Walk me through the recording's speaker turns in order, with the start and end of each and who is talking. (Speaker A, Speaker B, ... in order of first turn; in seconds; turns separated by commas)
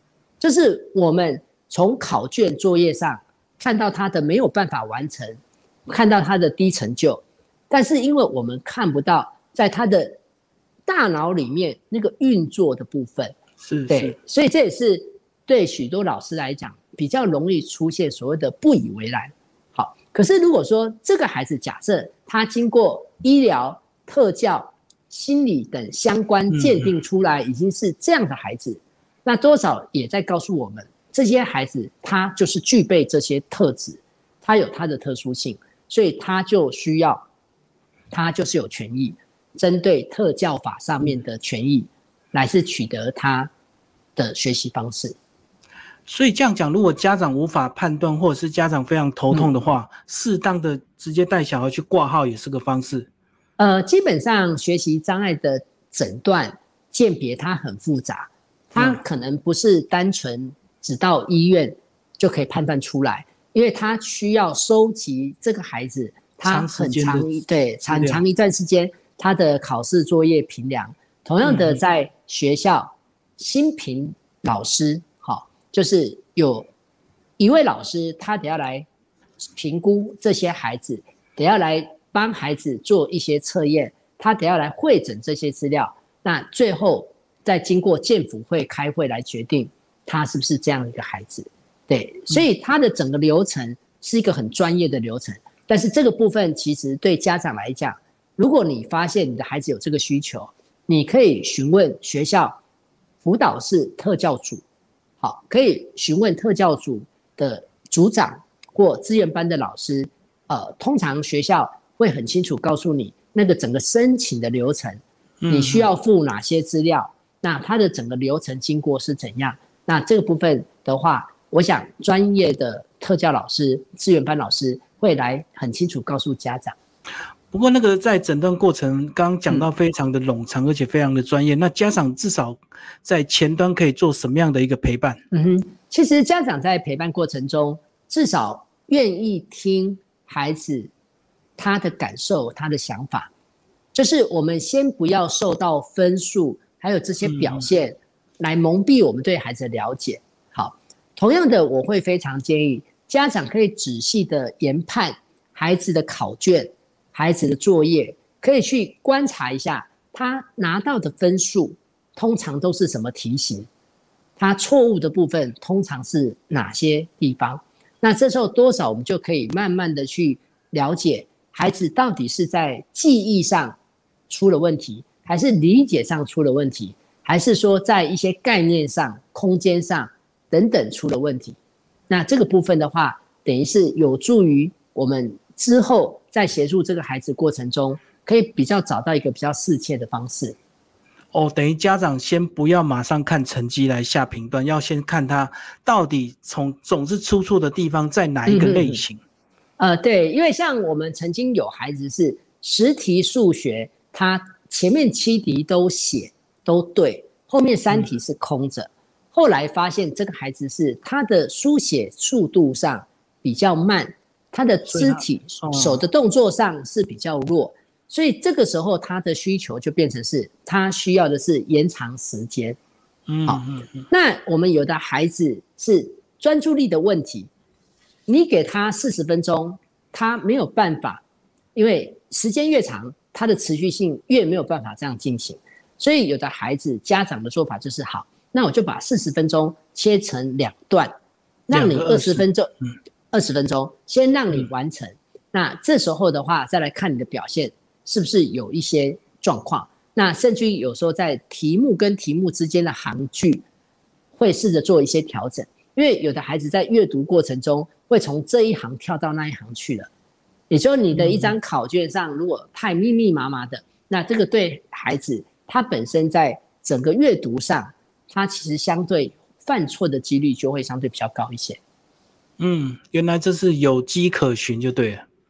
Speaker A: 0.4-10.2, Speaker A: 10.9-13.3, Speaker B: 13.6-14.2, Speaker A: 13.9-37.2, Speaker B: 26.6-26.9, Speaker A: 38.1-43.5, Speaker A: 44.2-45.2, Speaker B: 46.1-53.1, Speaker A: 53.6-76.7, Speaker B: 66.5-67.3, Speaker B: 67.9-68.2, Speaker B: 71.4-71.8, Speaker A: 77.4-78.9, Speaker A: 79.5-102.6, Speaker A: 103.2-104.6, Speaker A: 105.2-126.8, Speaker B: 115.4-115.9, Speaker B: 127.5-135.2, Speaker A: 135.3-140.9, Speaker A: 141.6-143.3, Speaker A: 143.9-163.7, Speaker B: 147.3-147.6, Speaker A: 164.4-173.8, Speaker A: 174.3-181.6, Speaker A: 182.1-190.6, Speaker B: 191.3-199.2, Speaker A: 198.5-199.0, Speaker A: 199.8-222.8, Speaker B: 214.9-216.0, Speaker B: 223.3-224.1, Speaker A: 223.5-227.5, Speaker A: 228.3-231.2, Speaker A: 231.8-241.1, Speaker A: 241.7-242.7, Speaker B: 241.7-242.4, Speaker A: 243.3-253.7, Speaker A: 254.4-260.1, Speaker A: 260.7-271.8, Speaker B: 261.1-261.5, Speaker B: 272.6-275.2